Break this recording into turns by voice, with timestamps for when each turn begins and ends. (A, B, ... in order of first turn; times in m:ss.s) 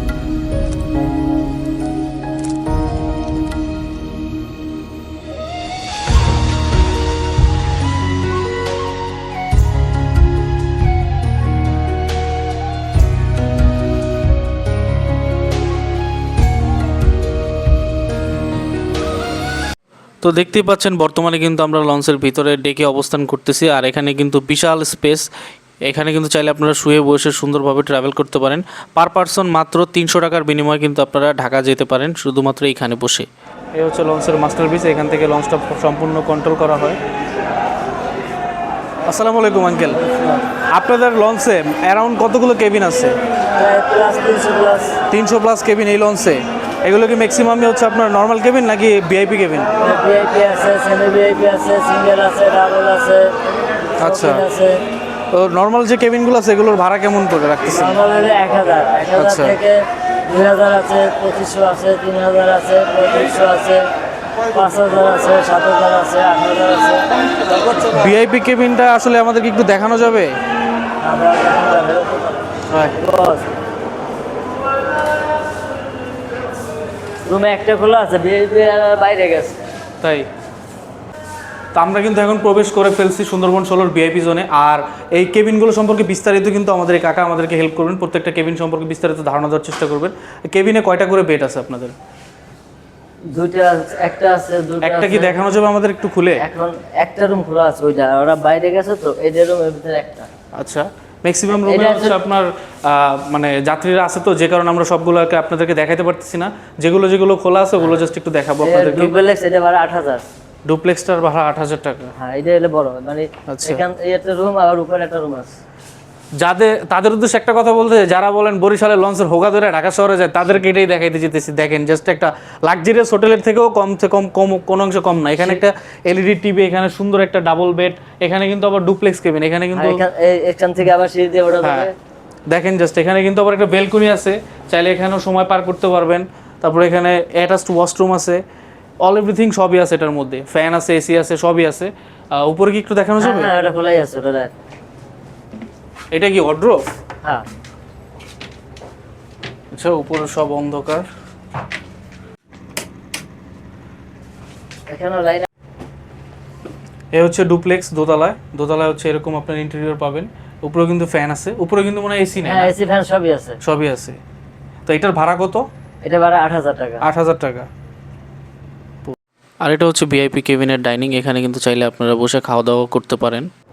0:20.2-0:25.3 A
0:25.8-0:37.0 A
0:39.1-0:40.1 A
0:40.0-0:40.4 B
0:40.7-0:43.1 A
0:43.6-0:45.0 B
0:45.1-0:49.7 A
0:49.8-0:53.3 B
0:54.0-0:54.4 A
0:54.0-0:54.8 B
0:55.3-0:58.0 A
0:57.7-1:03.8 B
0:59.2-0:59.6 A
1:04.5-1:07.0 B
1:07.7-1:10.3 A
1:11.0-1:12.4 B
1:12.7-1:13.0 A
1:13.0-1:13.5 B
1:17.3-1:19.6 B
1:20.0-1:20.3 A
1:21.7-1:32.0 A
1:33.3-1:35.4 B
1:34.8-1:36.4 A
1:36.4-1:40.3 B
1:40.5-1:49.1 A
1:41.5-1:42.2 B
1:48.6-1:50.2 B
1:50.7-1:52.1 A
1:52.2-1:55.5 B
1:53.5-1:53.8 A
1:56.4-2:10.0 A
2:09.7-2:11.9 B
2:11.6-2:11.9 A
2:12.5-2:18.4 A
2:19.0-2:23.5 A
2:23.2-2:24.5 B
2:26.1-2:26.8 A
2:29.7-2:31.0 A
2:34.9-2:35.4 B
2:37.1-2:42.7 A
2:42.4-2:43.6 B
2:43.6-2:44.2 A
2:44.9-2:45.7 A
2:46.0-2:47.0 B
2:47.0-2:47.7 A
2:49.1-2:53.5 A